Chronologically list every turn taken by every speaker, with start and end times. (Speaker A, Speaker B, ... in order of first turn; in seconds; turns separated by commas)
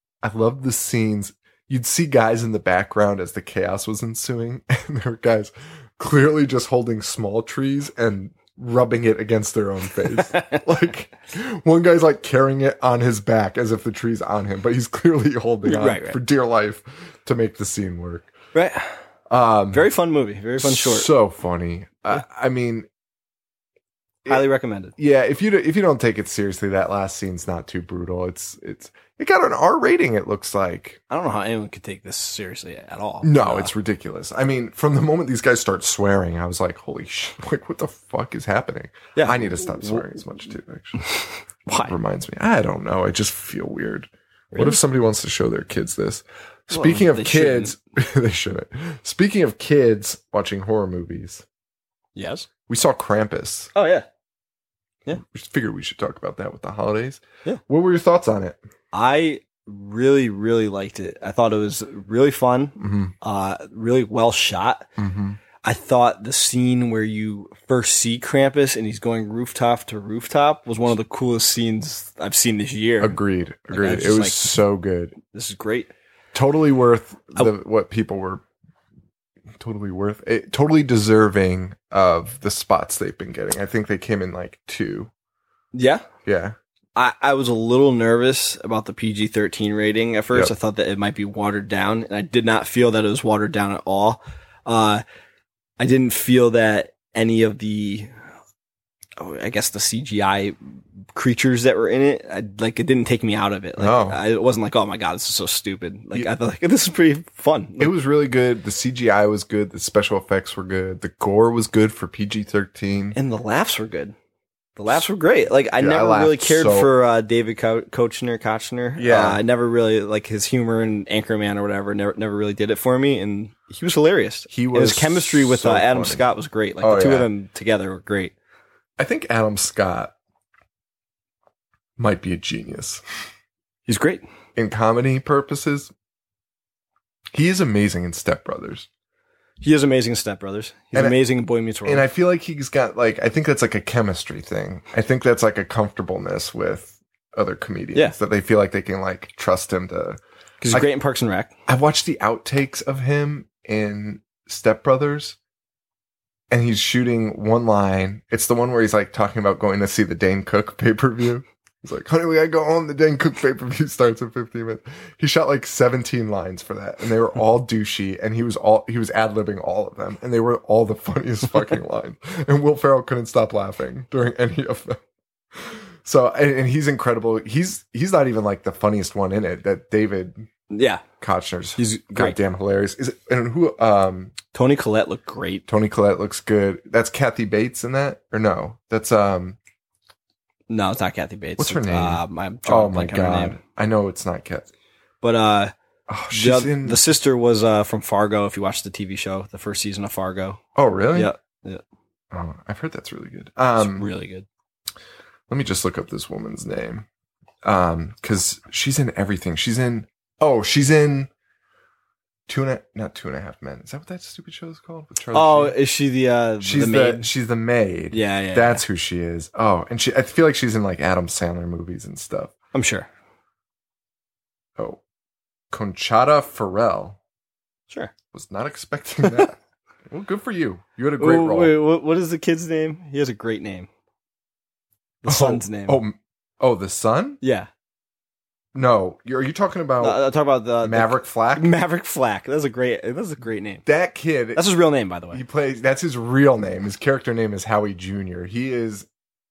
Speaker A: 0.2-18.3, Speaker B: 10.1-10.6, Speaker B: 15.6-16.2, Speaker B: 18.5-19.0, Speaker A: 19.3-19.9, Speaker B: 19.7-21.1, Speaker A: 20.6-22.9, Speaker B: 24.3-24.9, Speaker A: 25.0-31.0, Speaker B: 31.1-33.7, Speaker A: 33.2-41.0, Speaker B: 39.1-40.1, Speaker B: 41.1-41.9, Speaker A: 41.8-51.4, Speaker B: 46.7-47.7, Speaker B: 52.1-52.5, Speaker A: 52.7-53.7, Speaker B: 53.7-54.0, Speaker A: 55.2-58.6, Speaker B: 58.9-64.9, Speaker A: 62.8-63.1, Speaker A: 65.0-65.4, Speaker B: 65.6-73.2, Speaker A: 73.0-75.2, Speaker B: 73.7-74.6, Speaker B: 75.2-75.9, Speaker A: 76.3-78.4, Speaker A: 79.6-85.1, Speaker B: 85.7-86.0, Speaker A: 86.2-86.5, Speaker B: 87.0-95.0, Speaker B: 95.8-98.1, Speaker B: 99.2-100.6, Speaker B: 101.1-107.9, Speaker A: 103.8-104.2, Speaker A: 107.8-113.2, Speaker B: 113.1-114.1, Speaker B: 114.8-128.3, Speaker A: 115.8-116.9, Speaker A: 119.0-119.4, Speaker A: 124.5-126.2, Speaker A: 126.8-127.3, Speaker A: 129.0-130.1, Speaker A: 132.0-133.0, Speaker B: 133.9-134.2, Speaker A: 134.6-135.9, Speaker A: 137.3-138.9, Speaker B: 139.6-142.1, Speaker A: 140.9-141.2, Speaker A: 141.8-150.2, Speaker B: 150.6-151.5, Speaker A: 151.7-155.4, Speaker A: 156.5-175.0, Speaker A: 175.5-180.5, Speaker B: 180.7-181.0, Speaker A: 181.2-184.3, Speaker B: 181.8-182.4, Speaker B: 184.5-185.6, Speaker A: 185.7-189.6, Speaker B: 190.7-193.6, Speaker A: 191.6-194.7, Speaker B: 195.2-195.7, Speaker A: 196.1-197.0, Speaker B: 196.3-200.6, Speaker A: 200.7-201.3, Speaker B: 201.1-201.8, Speaker A: 202.3-204.1, Speaker B: 203.8-204.4, Speaker A: 205.5-207.1, Speaker A: 207.6-211.3, Speaker A: 212.5-215.8, Speaker B: 215.3-217.3, Speaker A: 216.6-222.5, Speaker B: 218.1-218.8, Speaker B: 222.7-223.1, Speaker A: 225.7-227.2, Speaker A: 228.3-229.6, Speaker A: 230.1-231.8, Speaker B: 231.2-233.9, Speaker B: 235.2-236.0, Speaker A: 235.2-237.4, Speaker B: 237.4-237.7, Speaker A: 238.7-240.2, Speaker B: 240.0-243.8, Speaker A: 240.8-241.7, Speaker A: 243.8-244.6, Speaker B: 244.5-245.4, Speaker A: 245.3-249.1